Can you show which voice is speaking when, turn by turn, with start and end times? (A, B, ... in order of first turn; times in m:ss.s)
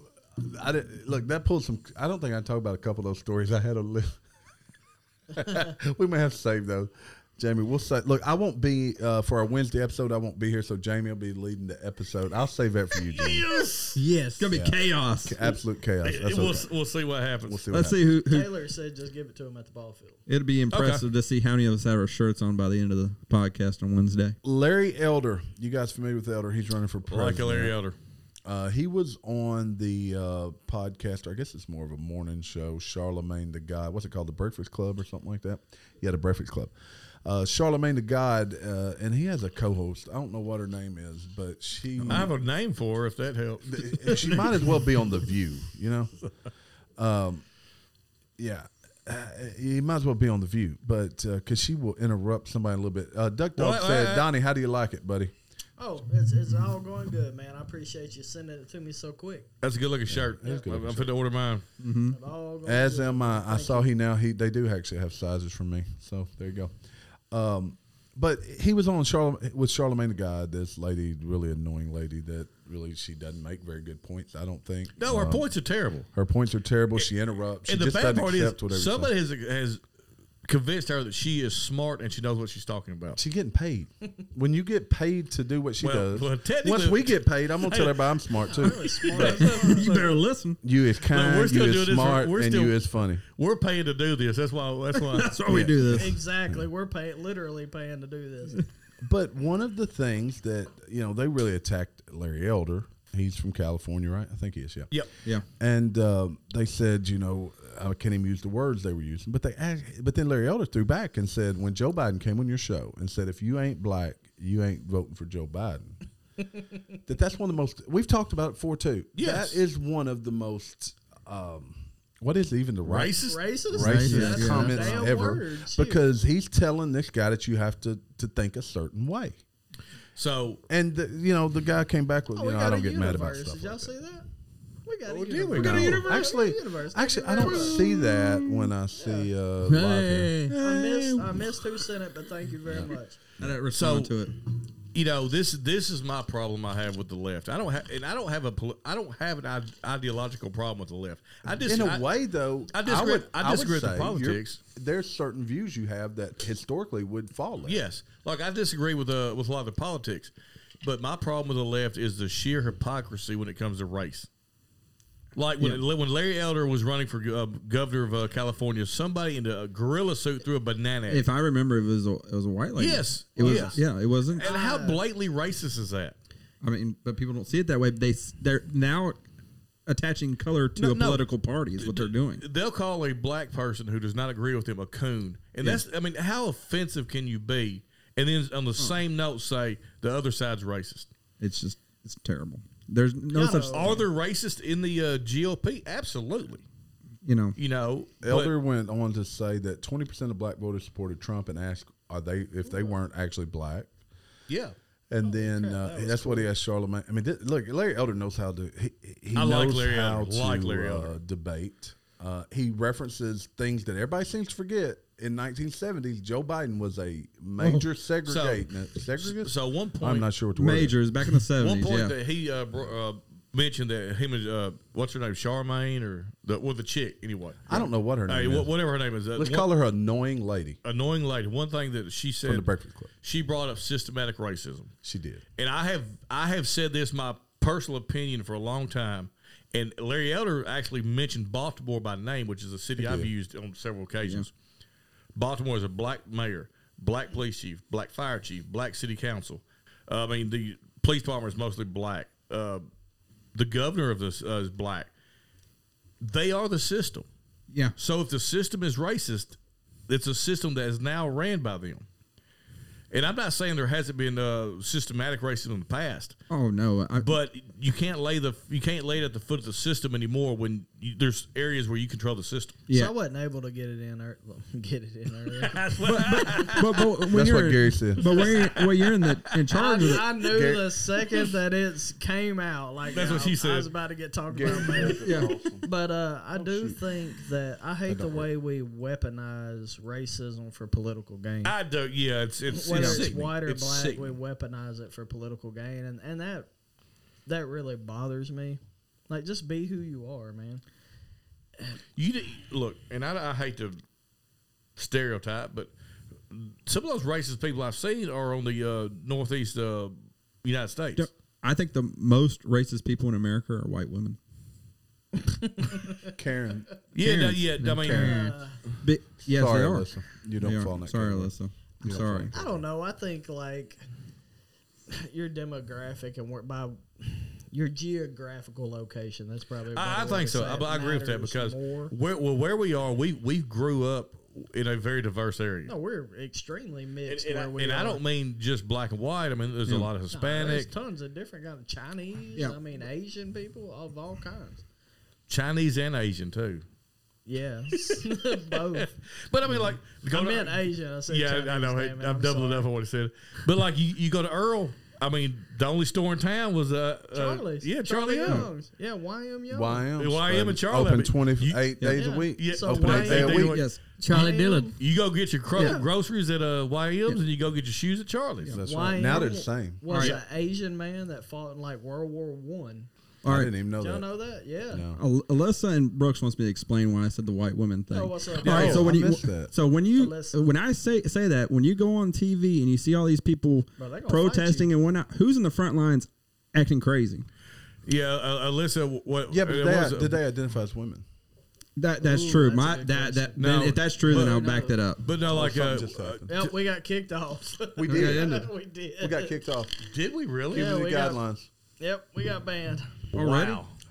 0:00.4-0:04.2 A
0:05.3-0:13.6 A
0:13.0-0:14.0 B
0:14.0-0:14.5 C
0:14.4-0:15.4 D
0:14.5-0:16.7 A
0:16.0-0:17.6 B
0:17.5-0:18.0 A
0:17.7-0:18.5 D
0:18.2-0:20.2 E
0:20.3-0:24.4 D
0:20.7-0:21.0 B
0:24.4-0:27.7 A
0:27.1-0:28.0 B
0:28.4-0:36.7 A
0:37.2-0:42.3 A
0:42.0-0:42.3 D
0:42.0-0:45.0 B
0:43.6-0:46.1 A
0:47.0-0:47.4 A
0:48.4-0:55.3 A
0:53.6-0:54.3 B
0:55.8-0:59.5 E
0:59.6-1:01.6 B
1:00.1-1:01.1 A
1:01.8-1:02.2 D
1:02.1-1:03.9 E
1:02.6-1:06.7 A
1:07.3-1:15.5 A
1:15.0-1:16.1 B
1:16.1-1:19.1 A
1:17.6-1:19.8 B
1:20.4-1:23.2 B
1:23.2-1:29.4 A
1:25.8-1:30.1 B
1:28.4-1:29.9 E
1:29.2-1:30.6 D
1:30.6-1:33.2 A
1:31.0-1:35.3 B
1:34.9-1:36.1 D
1:35.4-1:36.7 A
1:35.9-1:38.6 E
1:39.0-1:44.9 A
1:45.6-1:56.0 A
1:57.0-2:09.4 A
1:59.2-1:59.6 B
2:02.8-2:03.4 B
2:03.2-2:06.0 E
2:03.8-2:05.0 C
2:03.9-2:04.7 D
2:10.2-2:10.6 B
2:10.7-2:13.9 A
2:12.3-2:14.3 E
2:14.8-2:17.8 E
2:15.1-2:16.3 B
2:15.5-2:20.3 A
2:15.6-2:16.0 D
2:17.4-2:18.4 B
2:18.9-2:19.3 E
2:19.6-2:20.6 C
2:20.5-2:21.5 B
2:20.6-2:23.2 E
2:23.4-2:24.3 D
2:23.7-2:24.2 B
2:24.9-2:32.1 B
2:31.5-2:37.8 A
2:32.7-2:34.6 B
2:37.6-2:44.3 B
2:45.4-2:51.3 B
2:51.1-2:54.5 D
2:52.8-2:53.8 B
2:53.4-2:53.8 E
2:54.3-2:56.2 B
2:54.4-2:55.0 E
2:56.6-2:59.2 D
2:59.8-3:02.4 D
3:01.8-3:11.1 B
3:11.4-3:14.0 D
3:13.3-3:14.0 E
3:13.5-3:16.6 B
3:17.2-3:17.6 D
3:17.6-3:18.5 B
3:18.2-3:23.9 A
3:22.7-3:22.9 E
3:24.5-3:24.8 B
3:25.1-3:41.0 A
3:25.2-3:26.5 E
3:29.3-3:31.2 B
3:37.6-3:37.9 D
3:38.2-3:40.3 B
3:40.6-3:42.2 D
3:41.6-3:49.7 B
3:47.7-3:48.7 A
3:49.4-3:50.8 A
3:50.8-3:52.7 B
3:52.4-3:53.1 A
3:53.2-3:54.9 B
3:55.0-3:55.4 A
3:55.6-4:04.5 B
4:03.0-4:03.3 A
4:05.3-4:12.8 B
4:13.5-4:15.1 B
4:16.2-4:17.3 B
4:18.0-4:19.6 B
4:20.1-4:22.0 B
4:23.1-4:26.4 B
4:26.5-4:27.3 D
4:27.2-4:32.8 B
4:32.9-4:33.1 D
4:32.9-4:35.8 E
4:35.5-4:37.2 B
4:36.0-4:40.3 D
4:37.3-4:38.4 A
4:38.2-4:39.6 B
4:39.7-4:45.2 E
4:40.4-4:40.9 A
4:43.1-4:43.9 B
4:44.5-4:45.9 A
4:45.2-4:45.6 D
4:45.8-4:51.8 E
4:46.5-4:47.0 A
4:48.1-4:48.5 A
4:51.6-4:54.3 B
4:52.7-4:56.7 E
4:52.9-4:53.3 D
4:57.4-5:00.8 E
5:02.2-5:04.0 B
5:05.0-5:05.9 B
5:06.5-5:11.3 B
5:11.2-5:14.4 D
5:15.4-5:16.3 E
5:16.2-5:18.4 A
5:17.1-5:18.4 B
5:17.8-5:18.6 C
5:18.0-5:18.8 E
5:19.0-5:22.5 D
5:19.4-5:22.8 A
5:22.5-5:24.0 E
5:25.1-5:32.1 E
5:29.9-5:35.9 B
5:35.8-5:38.2 E
5:37.2-5:40.9 B
5:40.3-5:44.8 E
5:45.5-5:46.8 B
5:47.4-5:49.1 E
5:48.3-5:58.7 B
5:50.3-5:52.9 E
5:57.3-6:00.1 E
5:59.7-6:03.8 A
6:00.2-6:01.9 B
6:02.1-6:03.7 E
6:02.6-6:03.9 B
6:03.0-6:04.0 D
6:04.2-6:05.0 C
6:04.3-6:04.9 E
6:05.0-6:08.8 B
6:05.7-6:06.0 D
6:05.7-6:06.1 E
6:08.7-6:10.0 A
6:08.8-6:13.1 E
6:10.1-6:10.4 D
6:10.1-6:10.4 B
6:13.4-6:13.7 D
6:13.4-6:14.3 A
6:14.0-6:15.0 E
6:14.9-6:15.2 A
6:15.1-6:27.5 D
6:18.1-6:19.1 E
6:18.6-6:19.1 B
6:18.7-6:19.7 A
6:20.2-6:20.6 E
6:24.0-6:24.9 E
6:28.0-6:30.4 B
6:29.5-6:31.2 A
6:32.0-6:35.2 D
6:32.2-6:33.6 E
6:33.6-6:36.5 B
6:34.3-6:35.0 C
6:35.4-6:36.6 A
6:36.5-6:39.6 E
6:38.0-6:38.7 A
6:38.1-6:38.6 D
6:39.2-6:40.0 A
6:40.1-6:40.9 B
6:40.7-6:41.7 A
6:40.7-6:41.4 E
6:42.0-6:43.6 E
6:43.3-6:43.8 D
6:43.4-6:43.9 B